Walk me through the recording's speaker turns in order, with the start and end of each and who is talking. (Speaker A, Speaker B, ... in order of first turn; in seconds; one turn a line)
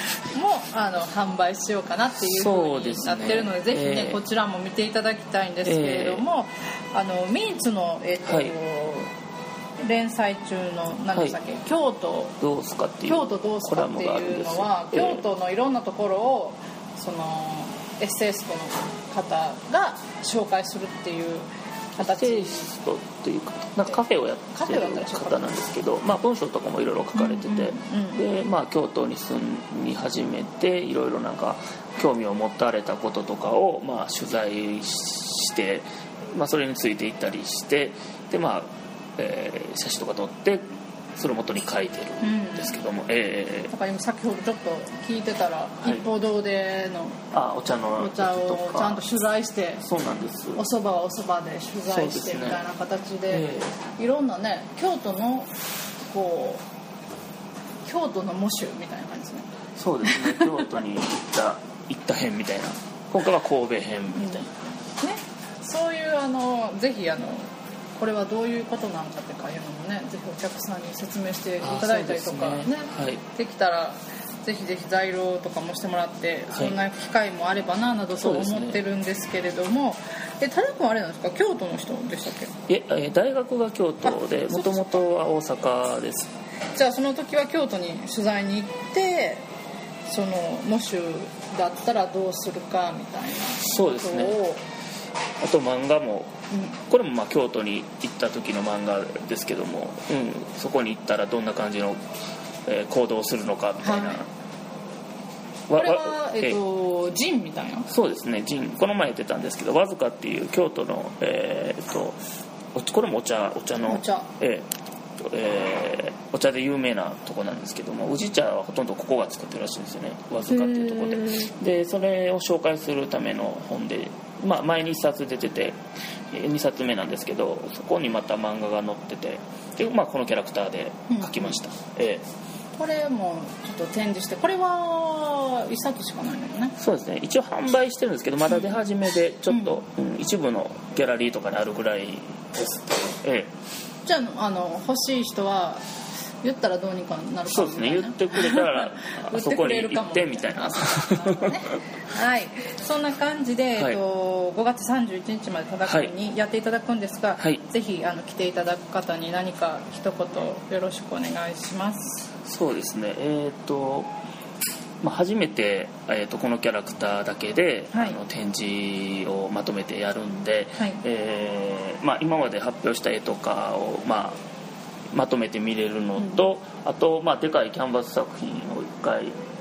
Speaker A: 0.2-9.1
Speaker B: 2.2-4.2
Speaker B: 5.7-6.2
Speaker B: 8.2-8.6
Speaker A: 9.8-12.4
Speaker B: 12.4-15.2
Speaker A: 13.1-22.7
Speaker B: 22.0-43.7
Speaker A: 24.5-25.5
Speaker A: 27.1-28.2
Speaker A: 42.2-42.8
Speaker A: 43.7-47.2
Speaker B: 47.3-49.0
Speaker A: 48.0-49.8
Speaker B: 49.8-50.6
Speaker A: 50.6-55.5
Speaker B: 51.9-52.6
Speaker B: 53.3-53.8
Speaker A: 56.1-56.6
Speaker A: 57.9-59.5
Speaker B: 59.8-64.5
Speaker A: 60.0-60.5
Speaker A: 64.2-64.5
Speaker A: 65.0-82.6
Speaker B: 71.6-73.2
Speaker B: 76.5-76.8
Speaker B: 78.2-78.8
Speaker B: 82.7-86.3
Speaker A: 84.0-85.0
Speaker A: 86.8-89.5
Speaker A: 90.1-94.6
Speaker B: 93.6-94.4
Speaker B: 95.4-102.0
Speaker B: 102.7-104.3
Speaker A: 103.8-104.2
Speaker B: 105.7-106.6
Speaker A: 105.8-107.9
Speaker B: 107.9-112.2
Speaker B: 112.7-114.7
Speaker A: 113.9-114.3
Speaker B: 115.2-125.8
Speaker A: 120.5-121.5
Speaker B: 126.3-132.3
Speaker A: 131.1-131.6
Speaker A: 132.8-136.8
Speaker B: 136.8-143.5
Speaker A: 139.5-139.8
Speaker A: 144.1-145.8
Speaker A: 146.4-162.3
Speaker B: 147.5-151.6
Speaker B: 155.9-156.1
Speaker B: 162.5-164.1
Speaker B: 165.0-174.4
Speaker A: 167.9-168.2
Speaker B: 175.1-179.3